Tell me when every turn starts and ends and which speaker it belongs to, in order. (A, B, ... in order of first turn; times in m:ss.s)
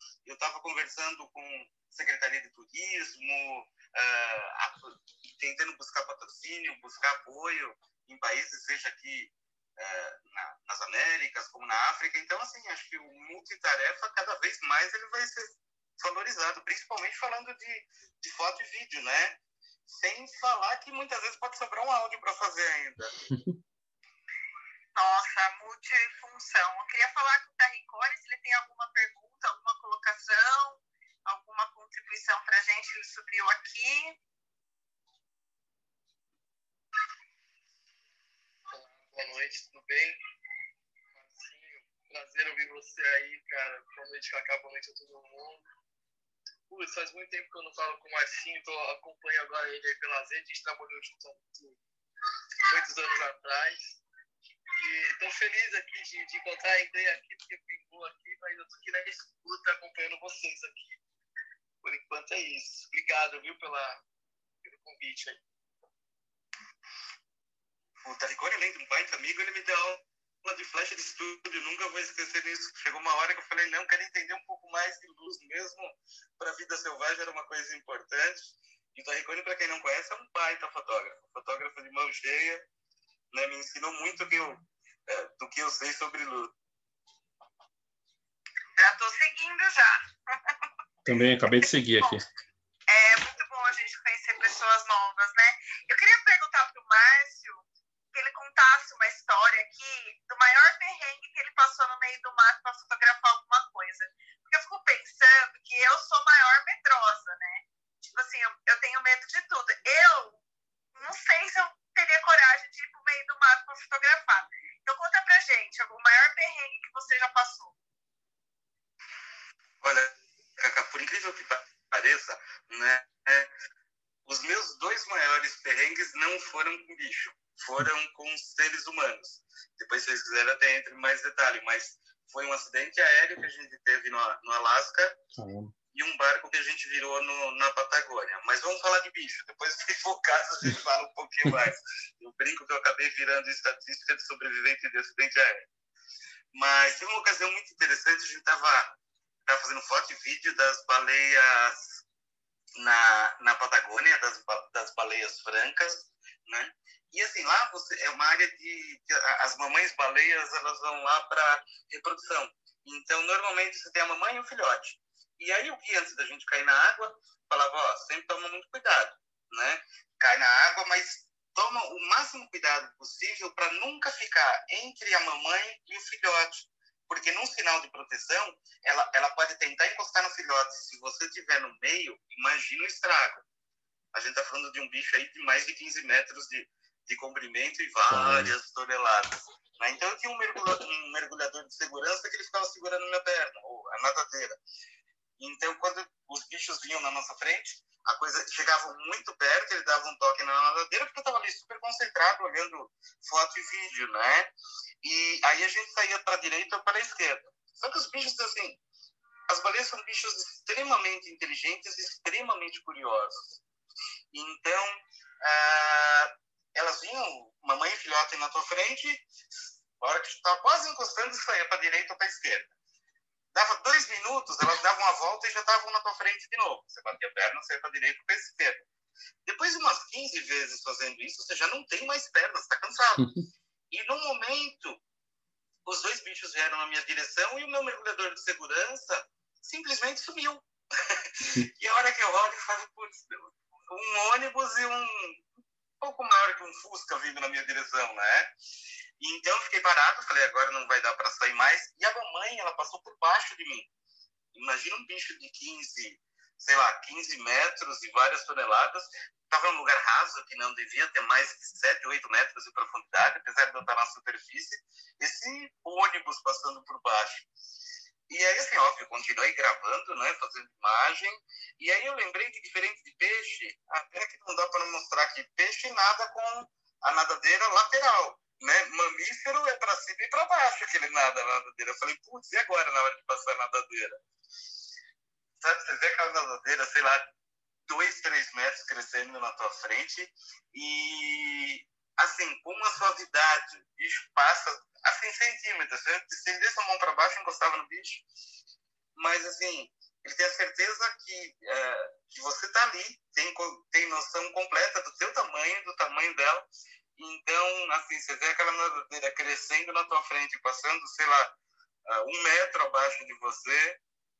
0:00.2-0:23.2 A
0:24.9-0:34.2 B
0:38.7-0:40.2 C
0:41.1-0:45.6 C
0:46.7-0:51.8 C
0:52.6-0:53.8 C
0:54.7-1:01.0 C
1:01.8-1:04.0 C
1:04.6-1:05.4 C
1:08.0-1:22.6 A
1:23.3-1:26.5 A
1:28.8-1:30.5 B
1:31.0-1:32.2 D
1:32.9-1:50.4 B
1:50.9-1:57.7 B
1:59.8-2:03.5 A
2:04.2-2:15.2 A
2:15.4-2:15.7 D
2:15.9-2:25.7 A
2:26.5-2:28.9 A
2:29.4-2:32.0 A
2:32.8-3:03.4 A
3:04.1-3:14.6 A
3:08.1-3:08.5 D
3:15.4-3:24.5 A
3:25.0-3:28.8 A
3:29.5-3:33.6 A
3:34.3-3:39.2 A
3:40.0-3:42.7 A
3:43.5-3:48.8 A
3:49.4-3:53.3 A
3:53.9-3:55.0 A
3:55.8-4:05.4 A
4:06.0-4:08.5 A
4:09.2-4:13.9 A
4:14.5-4:27.5 A
4:28.3-4:44.2 A
4:45.6-4:47.3 A
4:47.9-4:58.2 A
4:59.2-5:11.5 A
5:12.0-5:14.0 A